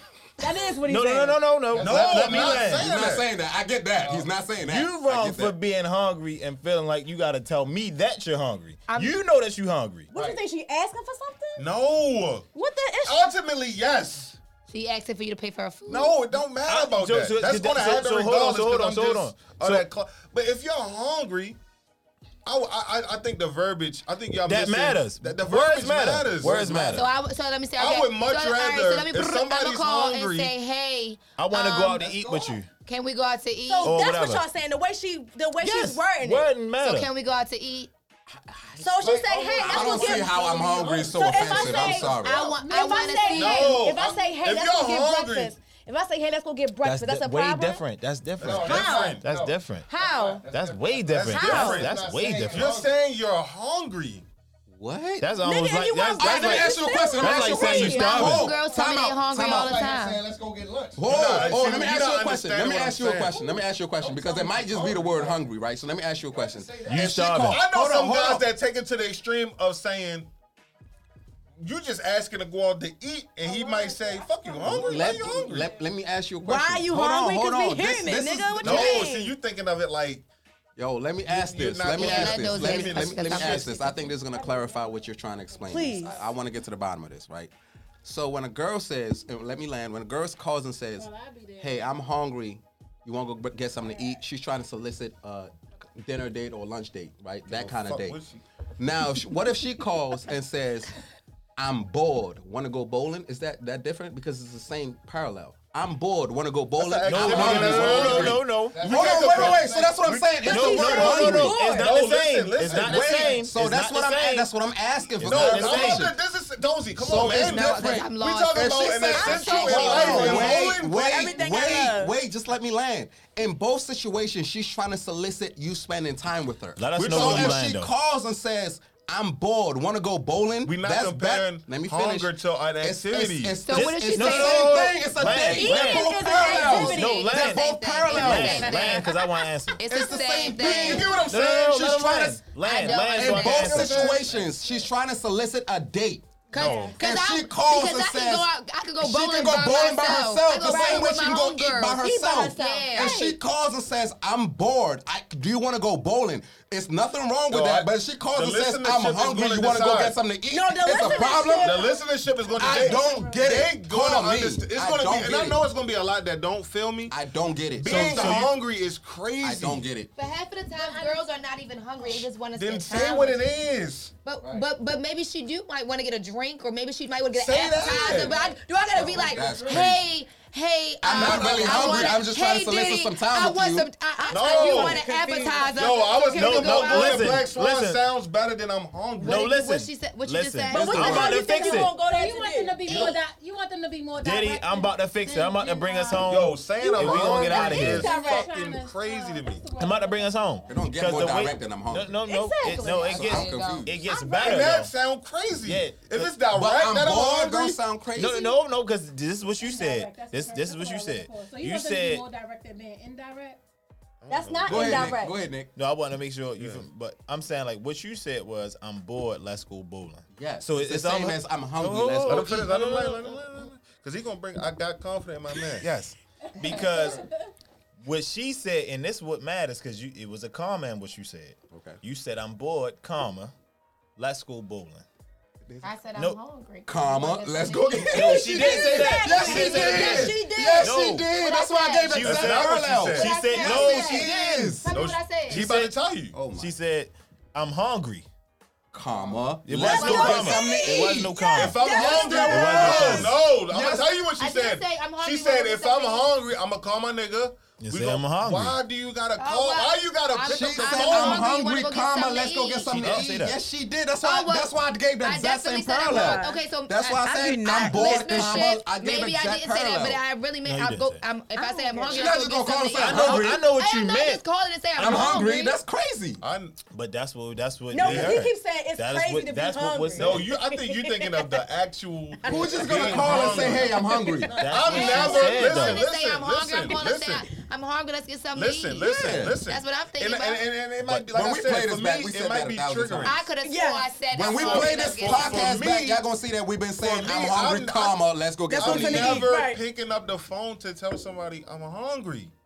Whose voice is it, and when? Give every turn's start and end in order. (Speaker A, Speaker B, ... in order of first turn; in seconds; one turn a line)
Speaker A: 0.4-1.5
Speaker B: 0.8-2.9
Speaker C: 1.7-2.7
Speaker D: 1.8-3.3
Speaker E: 2.4-5.5
Speaker C: 4.0-4.3
Speaker B: 4.6-10.1
Speaker F: 8.9-9.2
Speaker A: 10.1-11.7
Speaker C: 10.1-10.4
Speaker D: 11.6-12.5
Speaker A: 12.5-13.3
Speaker D: 13.0-14.4
Speaker F: 14.7-16.2
Speaker D: 15.9-21.6
Speaker B: 16.6-19.9
Speaker D: 22.4-27.1
Speaker B: 24.4-27.1
Speaker F: 26.9-32.1
Speaker D: 27.8-30.5
Speaker B: 31.4-32.7
Speaker C: 31.9-32.6
Speaker F: 32.9-34.0
Speaker A: 33.6-36.5
Speaker B: 33.8-34.5
Speaker B: 35.6-37.1
Speaker F: 36.8-37.9
Speaker E: 38.3-42.5
Speaker A: 38.8-47.8
Speaker C: 39.0-42.1
Speaker F: 42.1-43.8
Speaker G: 42.5-43.5
Speaker D: 43.3-45.5
Speaker B: 46.8-49.9
Speaker D: 48.4-49.2
Speaker C: 48.4-52.9
Speaker A: 48.6-49.2
Speaker A: 49.9-50.4
Speaker B: 50.5-52.7
Speaker D: 51.1-54.3
Speaker A: 51.3-51.8
Speaker E: 54.7-55.4
Speaker B: 55.2-58.5
Speaker A: 55.4-58.4
Speaker E: 56.2-59.8
Speaker F: 57.8-60.2
Speaker C: 59.4-61.7
Speaker E: 61.0-68.5
Speaker D: 61.1-63.4
Speaker C: 64.0-65.5
Speaker C: 66.3-67.3
Speaker B: 66.8-67.6
Speaker D: 67.0-70.3
Speaker D: 71.6-75.7
Speaker C: 73.4-75.6
Speaker E: 74.6-79.1
Speaker A: 76.4-79.4
Speaker D: 78.6-80.2
Speaker E: 80.8-87.5
Speaker D: 81.2-83.7
Speaker F: 81.9-84.1
Speaker G: 84.3-86.2
Speaker A: 85.7-86.2
Speaker E: 88.0-98.2
Speaker G: 91.0-91.9
Speaker G: 93.8-94.2
Speaker D: 97.5-98.4
Speaker E: 98.8-100.9
Speaker E: 101.6-111.7
Speaker D: 106.8-113.5
Speaker B: 107.1-108.8
Speaker C: 107.4-110.0
Speaker A: 110.5-112.0
Speaker B: 110.5-114.5
Speaker C: 112.7-113.4
Speaker E: 112.8-116.2
Speaker B: 115.2-116.1
Speaker D: 115.2-121.4
Speaker E: 117.0-139.0
Speaker F: 117.3-120.6
Speaker A: 119.2-122.2
Speaker B: 126.8-127.9
Speaker D: 127.0-127.7
Speaker D: 130.7-133.6
Speaker F: 133.7-135.0
Speaker B: 133.7-139.8
Speaker A: 135.3-137.6
Speaker F: 136.3-139.2
Speaker A: 138.2-139.1
Speaker F: 139.8-141.1
Speaker E: 139.9-142.4
Speaker D: 140.5-142.3
Speaker B: 141.2-144.1
Speaker F: 142.6-143.8
Speaker E: 142.9-146.5
Speaker C: 143.5-144.9
Speaker D: 143.8-144.2
Speaker F: 146.5-153.3
Speaker D: 146.5-147.0
Speaker E: 147.0-148.5
Speaker E: 149.0-161.9
Speaker A: 150.6-151.1
Speaker A: 152.0-153.4
Speaker D: 157.5-160.2
Speaker A: 160.5-162.0
Speaker G: 161.1-163.6
Speaker D: 161.6-167.2
Speaker E: 162.6-165.6
Speaker E: 167.1-168.5
Speaker D: 167.8-169.9
Speaker B: 167.8-168.5
Speaker E: 169.4-170.1
Speaker F: 170.2-173.5
Speaker G: 170.8-171.3
Speaker D: 172.6-174.1
Speaker F: 174.2-187.4
Speaker D: 177.3-178.4
Speaker C: 178.1-178.3
Speaker C: 178.9-179.9
Speaker E: 178.9-180.0
Speaker E: 181.0-183.9
Speaker D: 181.1-182.2
Speaker A: 184.2-186.3
Speaker D: 184.3-185.1
Speaker D: 185.7-189.5
Speaker B: 186.3-188.0
Speaker F: 189.2-191.8
Speaker B: 189.2-191.9
Speaker A: 190.7-193.2
Speaker E: 190.8-191.3
Speaker G: 191.8-196.4
Speaker B: 194.2-198.1
Speaker D: 196.3-199.7
Speaker A: 196.8-198.5
Speaker G: 197.5-200.8
Speaker B: 199.8-204.9
Speaker E: 200.7-202.2
Speaker A: 202.2-203.3
Speaker F: 202.8-204.0
Speaker E: 203.1-204.0
Speaker A: 204.0-204.7
Speaker D: 204.4-207.8
Speaker B: 205.6-206.4
Speaker E: 206.5-208.5
Speaker B: 208.2-212.2
Speaker G: 209.6-213.6
Speaker D: 214.2-215.2
Speaker A: 214.3-215.4
Speaker E: 214.7-215.7
Speaker B: 215.8-223.4
Speaker D: 216.6-216.8
Speaker E: 220.3-222.6
Speaker D: 222.3-225.9
Speaker B: 225.8-227.3
Speaker G: 226.7-227.2
Speaker B: 228.0-233.5
Speaker E: 231.7-232.0
Speaker B: 234.2-235.1
Speaker E: 235.7-235.9
Speaker F: 235.8-238.5
Speaker E: 236.9-244.9
Speaker B: 238.1-241.3
Speaker A: 238.1-241.0
Speaker D: 239.5-240.3
Speaker F: 241.4-242.3
Speaker B: 242.1-244.8
Speaker D: 242.2-246.4
Speaker F: 243.2-245.7
Speaker B: 245.5-245.9
Speaker E: 246.3-246.7
Speaker B: 246.6-248.3
Speaker E: 248.9-254.1
Speaker B: 249.7-251.8
Speaker F: 249.8-253.3
Speaker A: 250.6-251.0
Speaker D: 251.5-261.6
Speaker B: 252.5-253.4
Speaker F: 254.4-256.3
Speaker B: 257.8-258.8
Speaker F: 259.4-263.2
Speaker E: 260.5-270.2
Speaker B: 263.0-263.6
Speaker F: 264.2-275.8
Speaker A: 266.1-266.7
Speaker A: 267.2-268.8
Speaker B: 270.6-271.2
Speaker A: 271.6-272.5
Speaker E: 272.1-273.6
Speaker B: 273.0-274.4
Speaker E: 274.9-276.4
Speaker D: 276.4-276.8
Speaker B: 276.9-280.5
Speaker A: 277.9-281.6
Speaker D: 278.0-278.4
Speaker D: 280.2-284.0
Speaker A: 282.4-285.2
Speaker E: 282.5-285.3
Speaker B: 283.1-283.4
Speaker C: 284.5-285.1
Speaker B: 284.6-286.0
Speaker D: 284.6-287.5
Speaker F: 284.8-290.7
Speaker D: 288.5-293.5
Speaker E: 289.0-289.6
Speaker B: 291.0-291.3
Speaker E: 291.3-293.4
Speaker F: 293.2-295.9
Speaker A: 293.6-294.2
Speaker E: 294.3-299.5
Speaker D: 294.5-296.3
Speaker D: 297.0-298.2
Speaker A: 298.7-299.8
Speaker D: 298.8-302.5